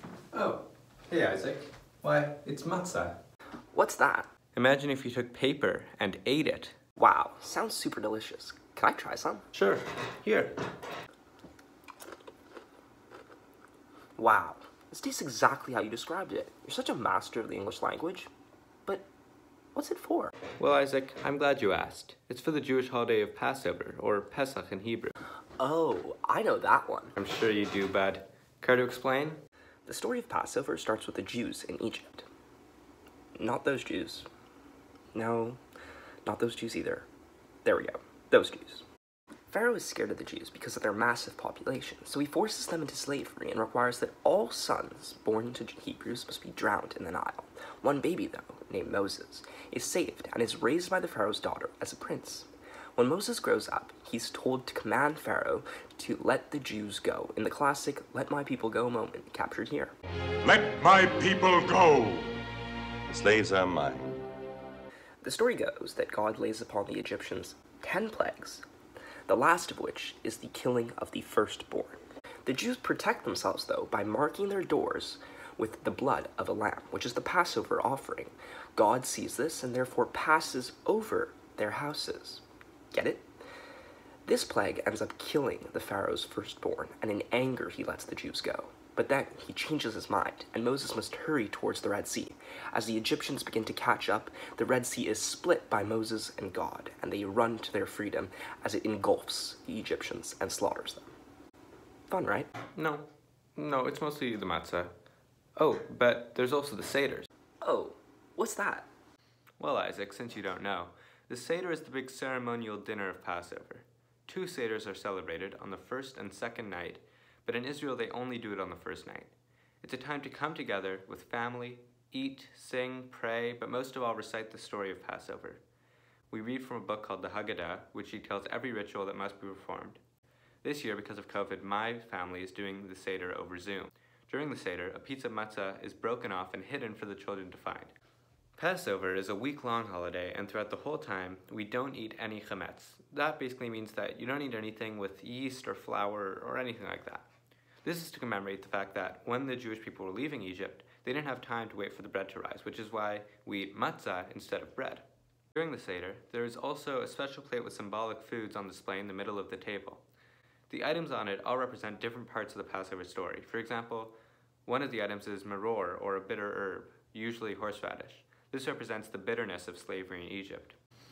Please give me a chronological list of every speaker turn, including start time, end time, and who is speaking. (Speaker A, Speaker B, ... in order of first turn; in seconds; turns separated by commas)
Speaker A: 0.3-3.2, Speaker B: 3.7-4.3, Speaker A: 4.5-6.8, Speaker B: 7.0-9.4, Speaker A: 9.5-10.6, Speaker B: 14.2-18.3, Speaker B: 19.8-20.4, Speaker A: 20.6-25.1, Speaker B: 25.6-27.1, Speaker A: 27.1-29.4, Speaker B: 29.9-32.3, Speaker B: 33.4-34.3, Speaker B: 35.1-35.6, Speaker B: 36.2-37.1, Speaker B: 37.6-38.9, Speaker B: 39.5-59.9, Speaker C: 60.4-62.3, Speaker C: 63.1-64.2, Speaker B: 65.2-68.7, Speaker B: 69.3-83.3, Speaker B: 84.3-101.1, Speaker B: 102.1-102.5, Speaker A: 102.8-104.9, Speaker A: 105.6-107.3, Speaker B: 107.6-108.9, Speaker A: 109.6-125.6, Speaker A: 126.3-130.0, Speaker A: 130.6-137.9, Speaker A: 138.6-147.3, Speaker A: 147.8-160.0, Speaker A: 160.7-164.1, Speaker A: 164.7-170.8